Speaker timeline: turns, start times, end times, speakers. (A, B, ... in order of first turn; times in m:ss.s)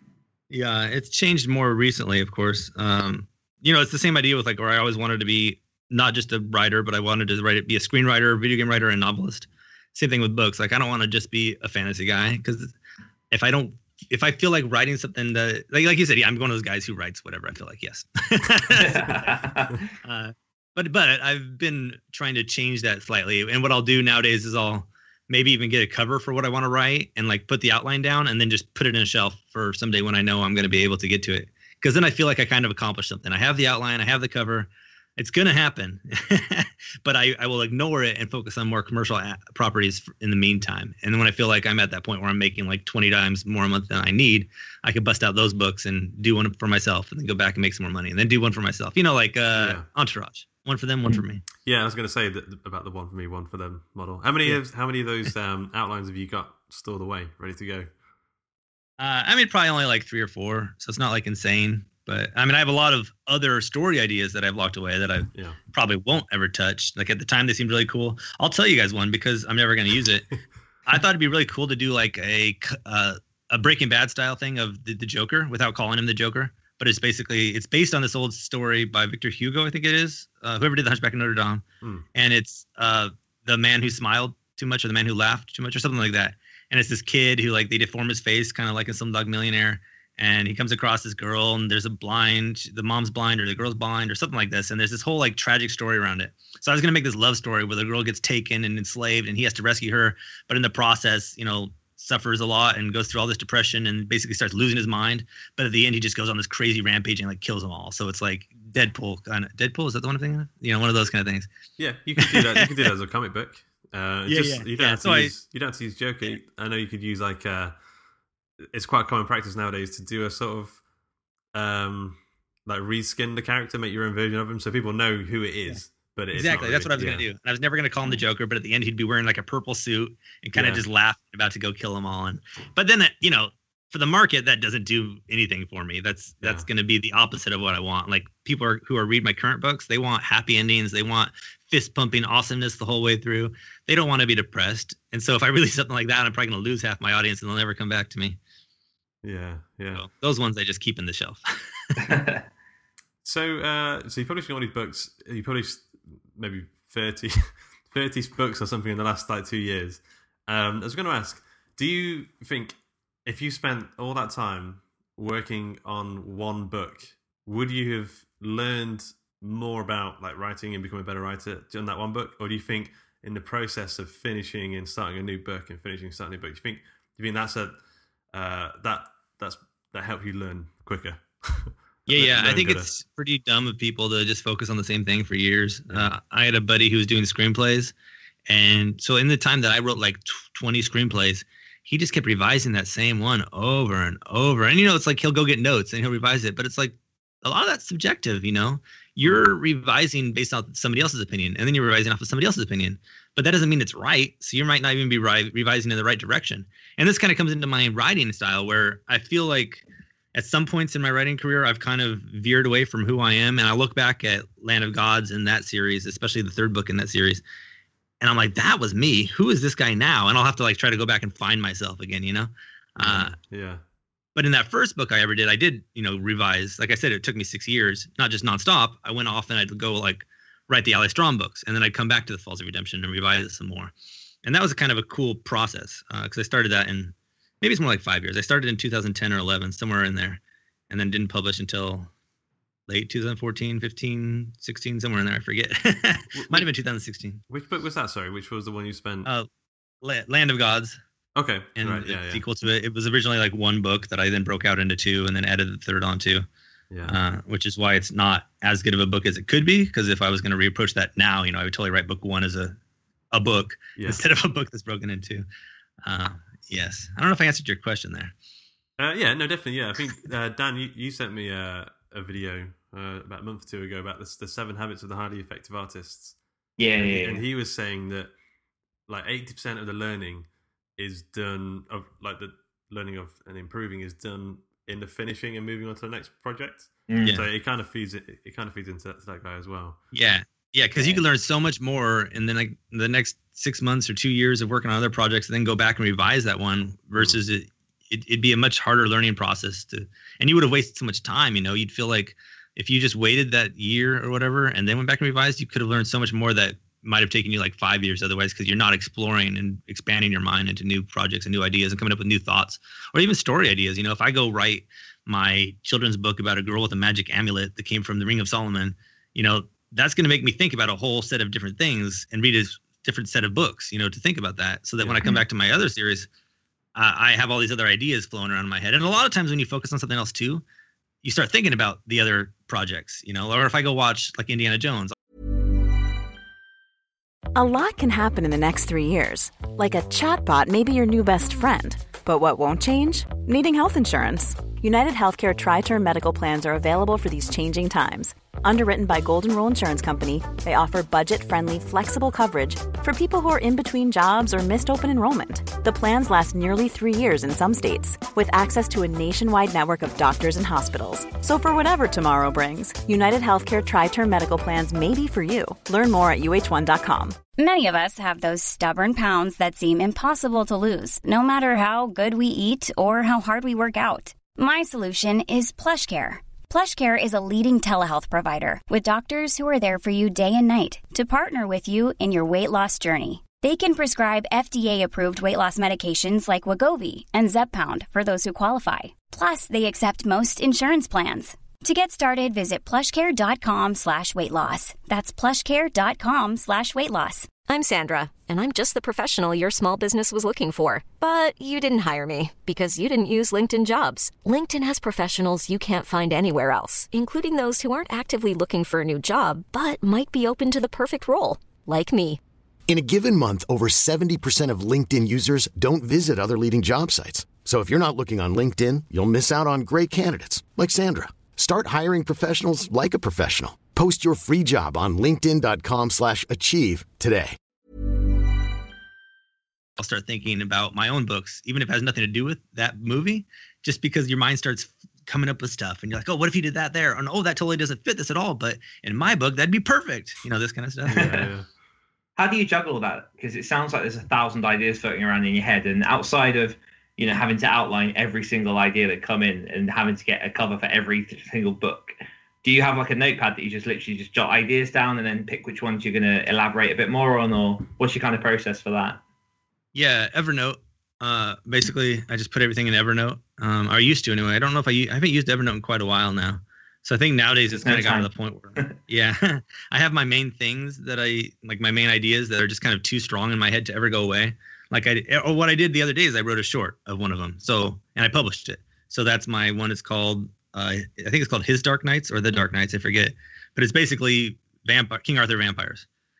0:00.5-0:12.7 A
0:13.3-0:19.4 A
0:18.8-0:19.9 B
0:20.0-0:51.4 A
0:49.6-0:49.9 C
0:51.1-0:57.9 C
0:59.0-1:10.3 A
1:05.3-1:05.6 C
1:10.9-1:51.5 A
1:51.8-1:57.8 C
1:52.2-1:52.7 A
1:54.3-1:55.3 A
1:58.7-2:00.8 C
2:01.5-2:07.2 C
2:06.3-2:28.4 A
2:10.6-2:10.8 C
2:29.2-2:30.1 C
2:29.9-2:31.5 A
2:32.0-2:32.4 B
2:33.2-2:57.8 C
2:58.3-3:02.9 C
3:02.1-3:07.9 A
3:08.5-3:37.4 A
3:38.2-3:43.4 A
3:43.0-3:43.8 C
3:44.4-3:53.9 A
3:54.4-4:02.1 A
4:02.9-4:07.4 A
4:06.4-4:06.7 C
4:07.5-4:09.3 C
4:10.0-4:11.0 A
4:11.4-4:12.4 C
4:11.8-4:16.5 A
4:16.9-4:17.2 C
4:17.0-4:22.8 A
4:23.3-4:25.5 A
4:26.0-4:28.3 A
4:29.0-4:36.4 C
4:36.8-4:37.4 B
4:37.0-4:38.3 C
4:39.1-4:50.0 C
4:47.1-4:47.4 B
4:50.1-5:26.3 A
5:25.0-5:25.4 C
5:27.0-5:30.6 A
5:31.2-5:35.1 A
5:37.6-6:07.4 D
6:07.6-6:37.5 E
6:37.7-6:52.4 F
6:52.9-7:07.6 G
7:10.0-7:21.4 A
7:21.1-7:21.7 C
7:22.4-7:39.2 B
7:39.9-8:06.1 A
7:47.7-7:49.0 B